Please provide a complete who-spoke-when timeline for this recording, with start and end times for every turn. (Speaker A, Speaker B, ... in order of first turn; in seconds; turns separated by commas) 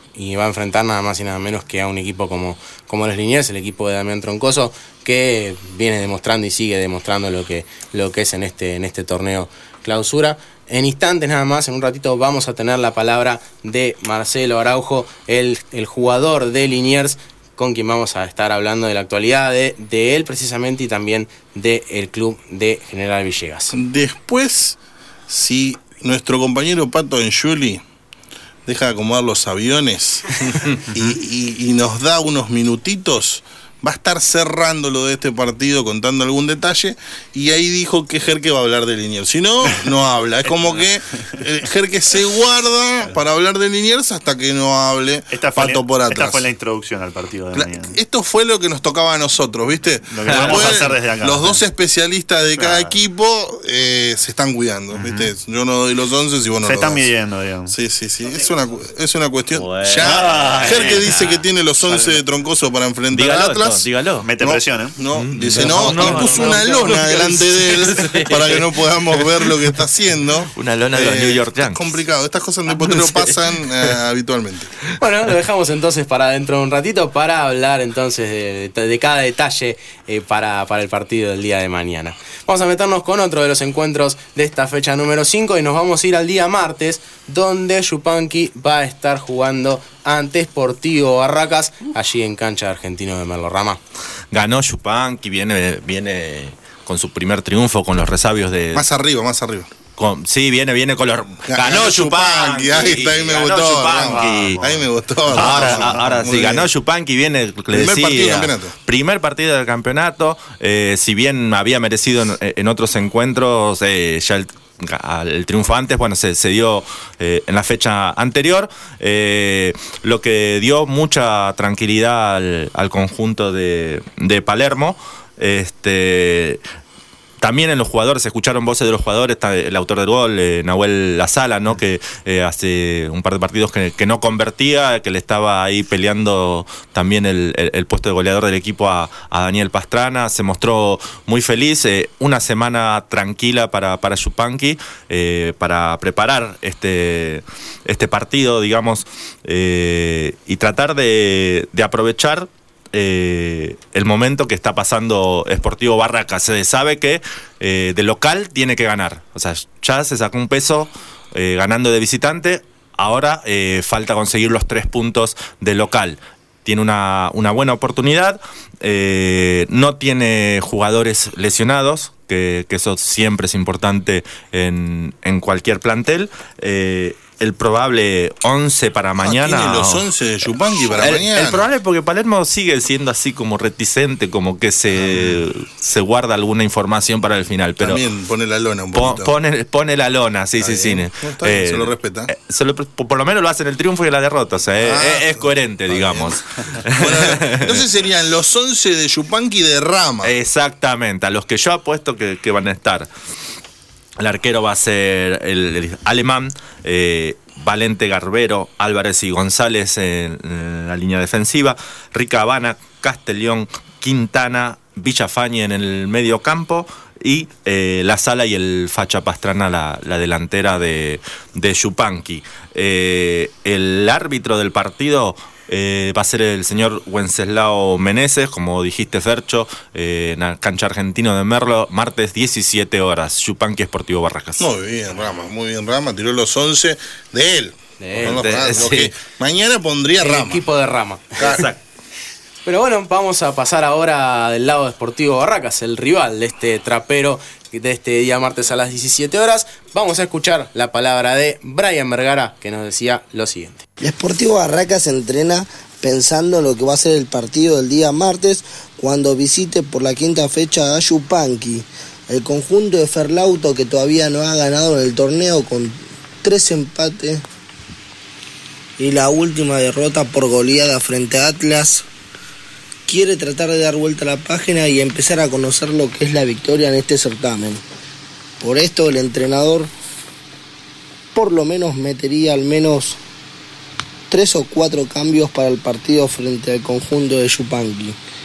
Speaker A: 0.1-23.7, Speaker B: 23.7-27.8, Speaker B: 28.6-46.4, Speaker C: 40.4-41.2, Speaker C: 45.3-48.0, Speaker B: 47.5-57.1, Speaker C: 50.1-51.6, Speaker D: 50.3-50.8, Speaker C: 52.6-53.0, Speaker C: 54.9-55.3, Speaker C: 56.6-57.7, Speaker B: 57.7-63.9, Speaker D: 59.5-61.4, Speaker C: 60.0-61.1, Speaker C: 61.8-62.2, Speaker D: 63.1-64.3, Speaker C: 64.2-64.9, Speaker B: 64.4-74.7, Speaker D: 65.1-69.5, Speaker A: 65.6-66.9, Speaker D: 70.5-71.9, Speaker D: 72.7-73.6, Speaker A: 75.0-93.8, Speaker D: 94.3-98.8, Speaker B: 98.7-99.7, Speaker D: 99.9-126.6, Speaker B: 101.4-106.7, Speaker C: 104.0-104.6, Speaker C: 105.3-106.2, Speaker B: 107.7-108.7, Speaker D: 127.4-180.0, Speaker B: 179.2-181.7, Speaker D: 180.9-188.0, Speaker B: 184.9-185.4, Speaker B: 187.8-189.3, Speaker D: 188.9-197.8, Speaker B: 190.6-192.3, Speaker B: 194.8-200.3, Speaker D: 200.2-203.1, Speaker D: 204.2-234.7, Speaker B: 234.6-240.6, Speaker A: 238.0-238.8, Speaker D: 238.2-239.1, Speaker A: 240.2-241.4, Speaker B: 241.4-241.7, Speaker D: 241.4-241.8, Speaker A: 242.6-253.8, Speaker E: 254.0-267.4, Speaker E: 269.0-272.1, Speaker E: 273.1-277.8, Speaker E: 278.6-279.9, Speaker E: 281.3-283.2, Speaker E: 284.3-288.2